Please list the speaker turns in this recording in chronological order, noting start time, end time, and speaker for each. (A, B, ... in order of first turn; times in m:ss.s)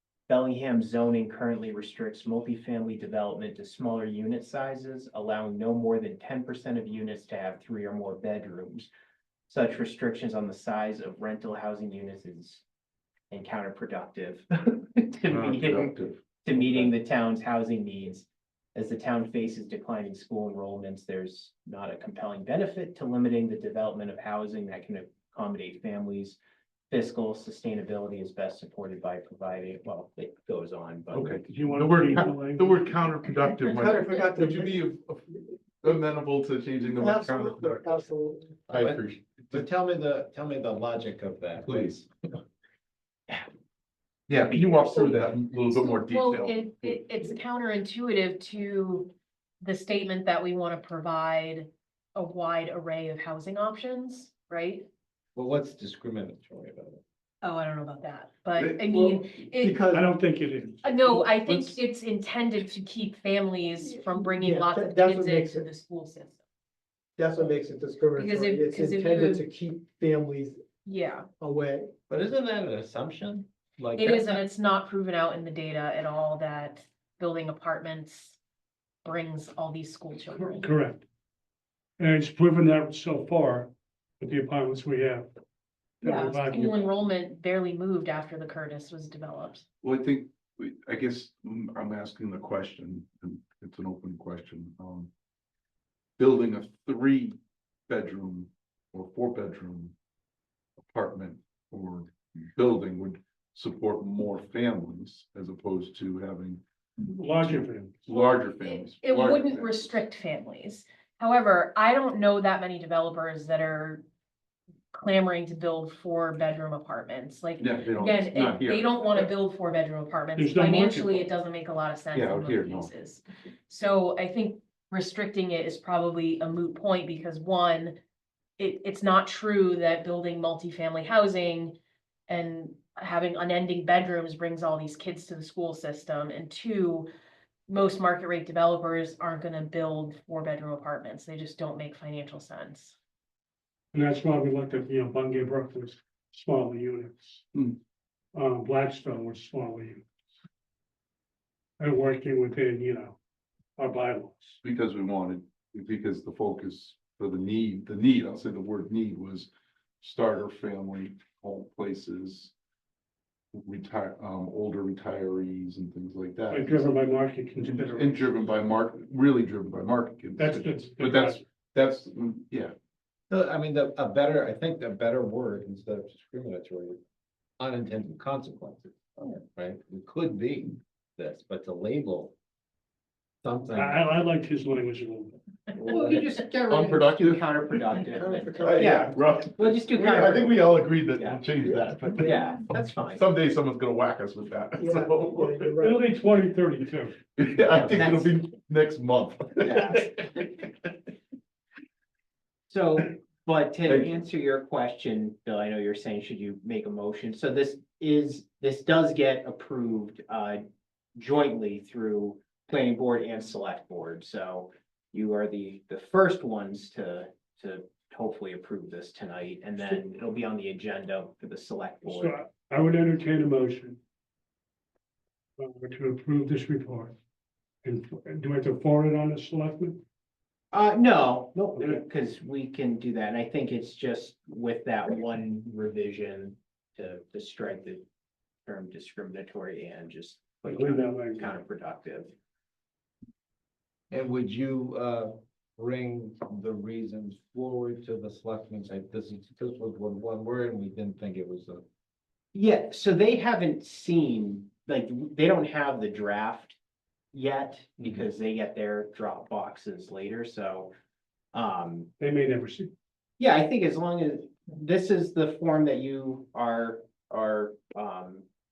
0:00.3-0:08.9 A
0:09.5-0:12.6 A
0:13.3-0:26.4 A
0:15.3-0:16.9 B
0:26.9-0:31.5 A
0:31.1-0:35.3 B
0:31.5-0:32.8 C
0:33.6-0:34.9 D
0:35.8-0:37.9 B
0:37.0-0:38.6 D
0:38.7-0:39.6 B
0:38.7-0:42.1 E
0:41.6-0:42.0 B
0:44.3-0:47.0 B
0:44.5-0:45.2 A
0:45.9-0:54.9 F
0:55.4-0:57.0 E
0:57.4-0:59.8 F
0:58.6-0:59.2 B
0:59.6-1:00.1 D
0:59.9-1:01.3 C
1:00.8-1:06.4 F
1:01.5-1:01.8 B
1:04.4-1:05.7 D
1:07.2-1:10.6 D
1:08.2-1:09.5 F
1:10.8-1:11.3 F
1:11.4-1:11.9 D
1:12.1-1:14.4 E
1:14.0-1:18.4 F
1:19.0-1:20.7 F
1:20.4-1:21.0 C
1:22.0-1:25.3 C
1:26.0-1:26.9 C
1:26.0-1:29.7 F
1:29.8-1:35.1 B
1:36.2-1:39.9 B
1:40.8-1:46.6 B
1:47.0-1:48.1 C
1:48.1-1:49.7 B
1:48.1-1:54.0 F
1:54.9-2:08.0 F
1:57.6-1:59.3 B
2:00.4-2:01.3 C
2:02.1-2:02.9 B
2:08.6-2:11.8 F
2:12.3-2:17.1 F
2:17.7-2:23.0 F
2:23.9-2:27.4 C
2:27.5-2:27.8 B
2:28.3-2:30.1 C
2:31.8-2:33.2 C
2:33.8-2:34.6 C
2:34.6-2:39.5 B
2:40.0-2:42.5 B
2:43.5-2:46.9 B
2:46.5-2:48.4 C
2:47.6-2:52.8 B
2:50.4-2:51.4 C
2:53.3-2:57.0 E
2:57.6-3:02.3 E
3:03.4-3:04.0 E
3:03.8-3:05.4 C
3:05.8-3:11.4 A
3:05.9-3:08.0 B
3:08.2-3:09.0 D
3:08.6-3:15.8 B
3:12.2-3:13.2 A
3:14.8-3:16.0 D
3:15.8-3:17.2 C
3:17.4-3:20.1 B
3:17.8-3:18.3 A
3:19.6-3:20.5 A
3:22.7-3:30.6 A
3:31.2-3:42.4 A
3:42.0-3:44.0 C
3:45.6-3:47.2 C
3:47.8-3:50.0 C
3:50.7-3:58.0 A
3:58.7-4:02.3 A
4:00.6-4:01.5 C
4:04.1-4:11.8 E
4:12.5-4:16.8 A
4:17.3-4:20.9 A
4:21.5-4:22.1 A
4:22.2-4:22.9 C
4:23.4-4:28.5 A